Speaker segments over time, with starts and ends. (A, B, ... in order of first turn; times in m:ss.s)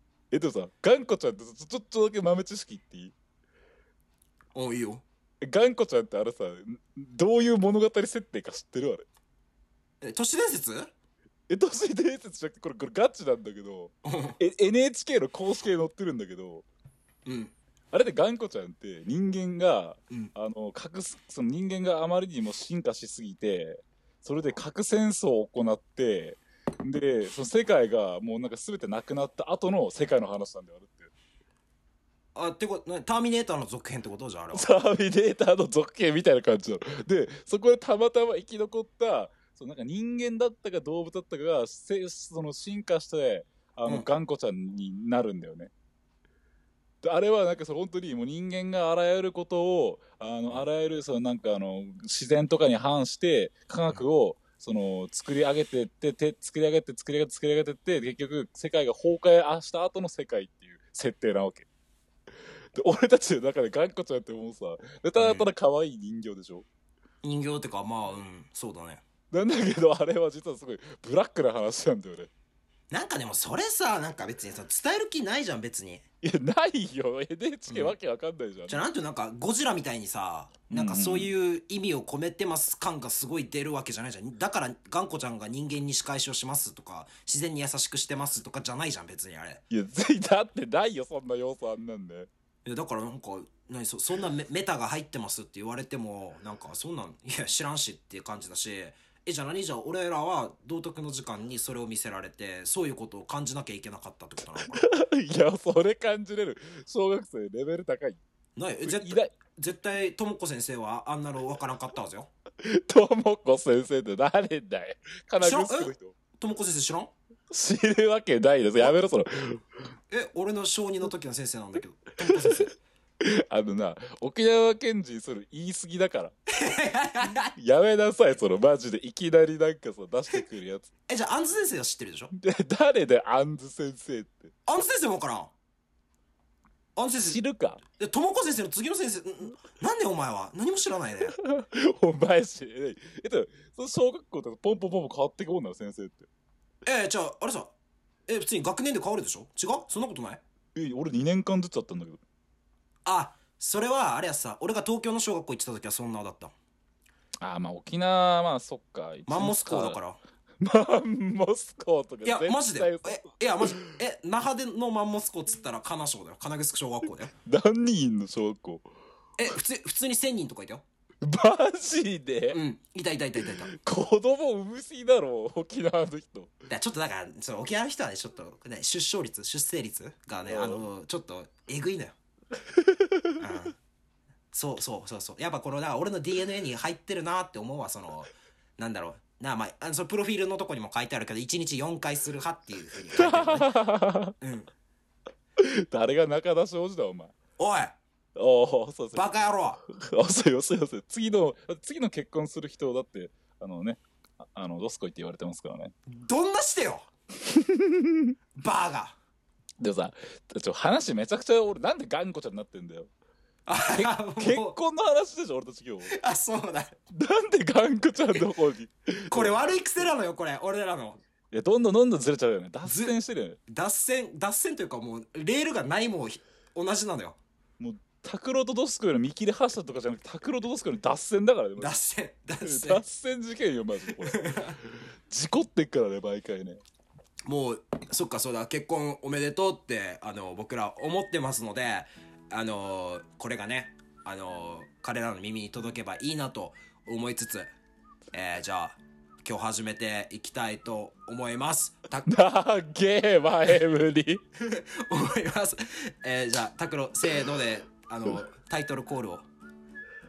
0:00.3-0:03.1 A
0:04.5-0:05.0 B
0:05.4-0:09.1 A
0:10.0-0:10.9 B
0:11.5-0:16.6 A
0:14.0-0:14.4 B
0:17.2-0:17.5 B
0:17.9-0:31.1 A
0:32.4-0:34.7 B
0:34.5-0:45.7 A
0:47.0-1:01.7 A
1:02.8-1:06.6 A
1:05.2-1:05.5 B
1:07.2-1:09.0 B
1:09.3-1:12.3 A
1:12.9-1:16.0 B
1:16.2-1:18.8 A
1:17.7-1:17.9 B
1:18.7-1:29.6 B
1:20.7-1:21.3 A
1:29.7-1:32.3 A
1:32.6-1:44.8 B
1:44.7-1:48.2 A
1:48.6-1:52.3 B
1:48.8-1:49.3 A
1:52.6-1:56.1 A
1:55.4-1:57.1 B
1:57.5-1:59.6 A
2:00.1-2:02.7 B
2:03.2-2:06.3 A
2:06.5-2:07.5 B
2:07.6-2:10.9 A
2:11.1-2:12.3 B
2:12.3-2:14.5 A
2:14.7-2:15.5 B
2:17.0-2:17.4 B
2:17.2-2:17.8 A
2:18.0-2:21.3 B
2:21.3-2:26.3 A
2:26.8-2:27.7 B
2:28.3-2:30.4 B
2:30.7-2:32.2 A
2:33.0-2:36.5 B
2:37.4-2:40.0 A
2:39.3-2:40.2 B
2:40.6-2:43.9 A
2:42.2-2:47.3 B
2:47.4-2:48.9 A
2:49.4-2:50.8 B
2:51.2-2:52.6 A
2:52.5-2:53.7 B
2:53.7-2:56.5 A
2:56.7-3:02.1 B
3:00.5-3:00.8 A
3:03.4-3:03.7 B
3:04.5-3:13.7 B
3:13.1-3:14.3 A
3:14.4-3:14.7 B
3:15.6-3:17.3 A
3:17.6-3:18.0 B
3:18.4-3:19.4 A
3:19.1-3:19.8 B
3:19.9-3:25.9 A
3:26.1-3:27.0 B
3:27.4-3:28.3 A
3:28.6-3:29.2 B
3:29.8-3:33.1 A
3:33.6-3:34.7 B
3:33.9-3:36.1 A
3:36.0-3:37.0 B
3:37.1-3:39.5 A
3:39.3-3:41.2 B
3:41.5-3:43.6 A
3:42.8-3:43.1 B
3:43.7-3:47.4 B
3:47.8-3:51.9 A
3:51.8-3:53.0 B
3:52.6-3:56.8 A
3:54.2-3:54.7 B
3:57.4-4:07.7 B
4:08.3-4:12.3 B
4:12.3-4:14.4 A
4:14.6-4:19.5 B